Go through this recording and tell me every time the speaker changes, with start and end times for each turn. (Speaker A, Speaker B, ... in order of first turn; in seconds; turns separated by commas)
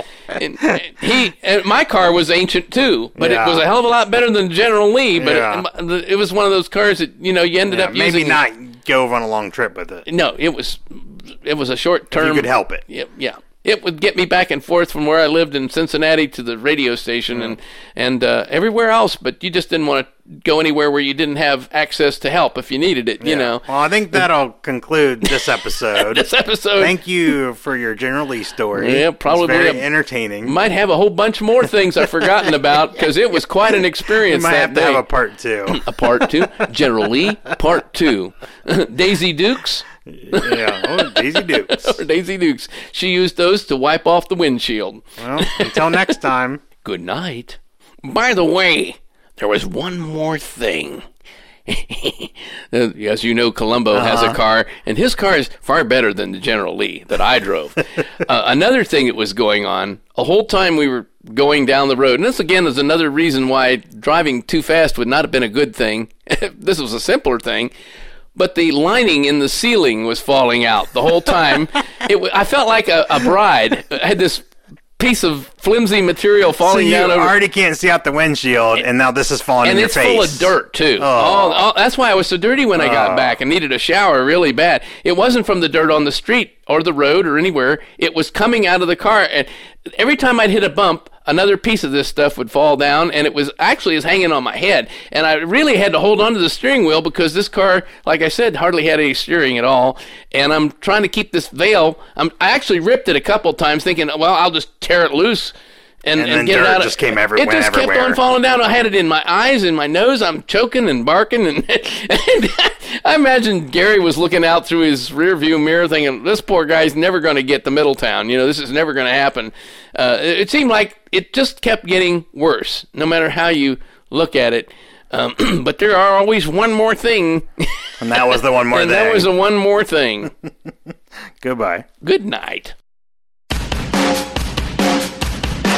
Speaker A: 0.3-8.4, Speaker B: 3.2-3.6, Speaker B: 5.2-5.6, Speaker B: 7.7-10.0, Speaker A: 10.1-24.2, Speaker B: 12.1-12.8, Speaker B: 23.2-30.5, Speaker A: 25.9-26.9, Speaker A: 28.7-29.8, Speaker A: 30.4-35.0, Speaker B: 32.2-32.5, Speaker B: 34.2-36.2, Speaker A: 35.7-46.0, Speaker B: 40.1-42.0, Speaker B: 45.2-46.6, Speaker A: 46.8-51.0, Speaker A: 51.7-67.7, Speaker B: 53.9-54.4, Speaker A: 68.3-74.5, Speaker A: 75.0-77.3, Speaker B: 76.6-81.7, Speaker A: 79.6-127.5, Speaker B: 82.8-83.4, Speaker B: 106.2-108.2, Speaker B: 128.0-129.3, Speaker A: 128.3-130.3, Speaker B: 131.4-131.8, Speaker A: 132.0-132.7